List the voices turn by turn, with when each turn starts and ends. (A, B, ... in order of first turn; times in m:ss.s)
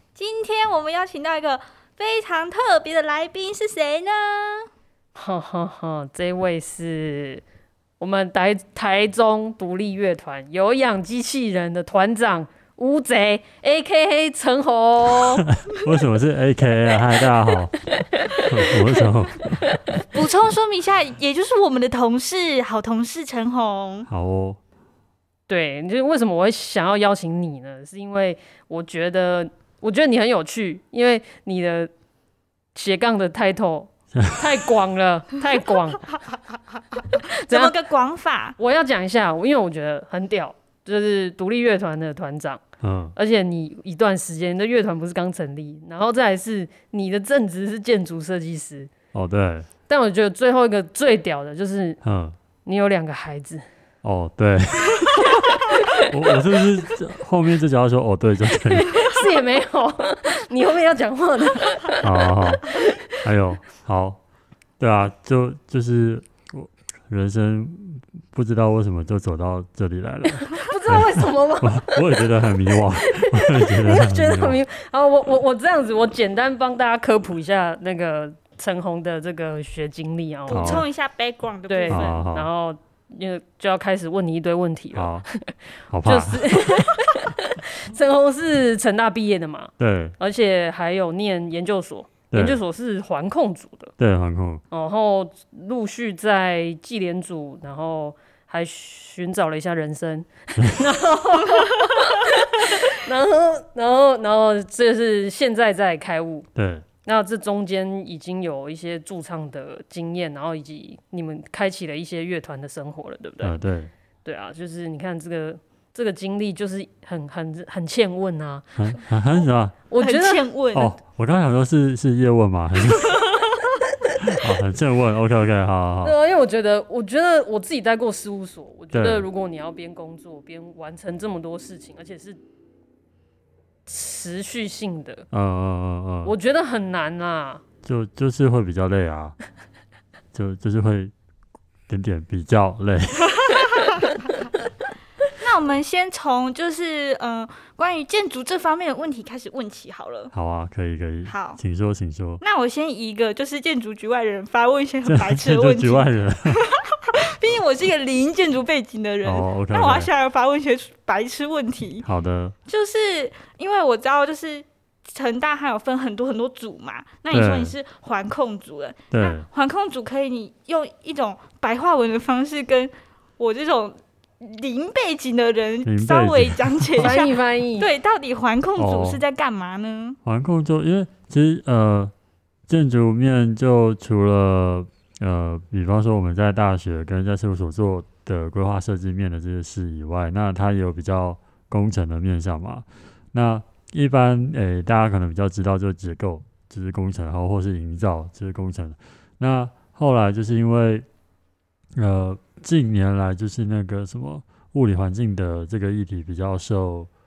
0:00.2-0:04.7 A
0:05.2-0:07.4 B
0:08.0-0:15.5 B
0:15.5-0:19.8 C
0:17.8-0:19.1 B
0:19.6-0:20.0 B
0:20.1-0:24.1 A
0:24.1-0:24.6 C
0:25.5-0:31.9 B
0:32.8-0:36.2 B
0:34.1-0:34.5 C
0:36.9-0:38.6 A
0:37.4-0:37.8 B
0:38.6-0:42.6 B
0:42.8-0:43.2 C
0:43.2-0:48.9 B
0:49.1-0:49.7 C
0:49.9-0:52.0 B
0:52.0-0:52.4 C
0:52.6-0:53.7 B
0:54.0-0:59.1 C
0:55.2-0:56.1 B
0:58.7-1:03.1 B
1:02.0-1:04.2 C
1:04.8-1:14.6 C
1:10.5-1:20.9 B
1:20.5-1:22.2 A
1:20.5-1:20.9 C
1:21.7-1:33.9 B
1:21.9-1:22.5 C
1:24.9-1:25.3 C
1:25.9-1:26.9 C
1:29.8-1:30.2 C
1:32.3-1:32.6 C
1:34.0-1:34.6 C
1:34.7-1:46.5 B
1:40.6-1:40.9 C
1:46.6-1:46.9 C
1:47.0-1:53.6 B
1:53.4-1:53.9 C
1:54.2-1:58.7 B
1:58.8-1:59.8 C
1:59.9-2:00.5 B
2:00.0-2:00.9 A
2:00.7-2:03.4 C
2:04.2-2:06.2 C
2:06.0-2:12.4 B
2:08.9-2:09.3 C
2:13.9-2:15.3 B
2:15.3-2:16.3 C
2:16.2-2:17.6 B
2:17.8-2:19.4 C
2:20.3-2:21.1 C
2:21.9-2:23.7 C
2:25.3-2:30.3 A
2:30.3-2:32.4 C
2:31.3-2:31.6 A
2:32.4-2:42.0 A
2:35.1-2:36.6 C
2:39.2-2:40.1 C
2:42.0-2:42.6 C
2:42.7-3:00.2 A
2:47.3-2:47.8 C
2:49.1-2:49.5 C
2:55.8-2:57.2 C
2:57.0-2:57.9 B
2:58.8-2:59.2 C
3:00.2-3:02.1 C
3:02.7-3:21.1 C
3:22.0-3:27.1 C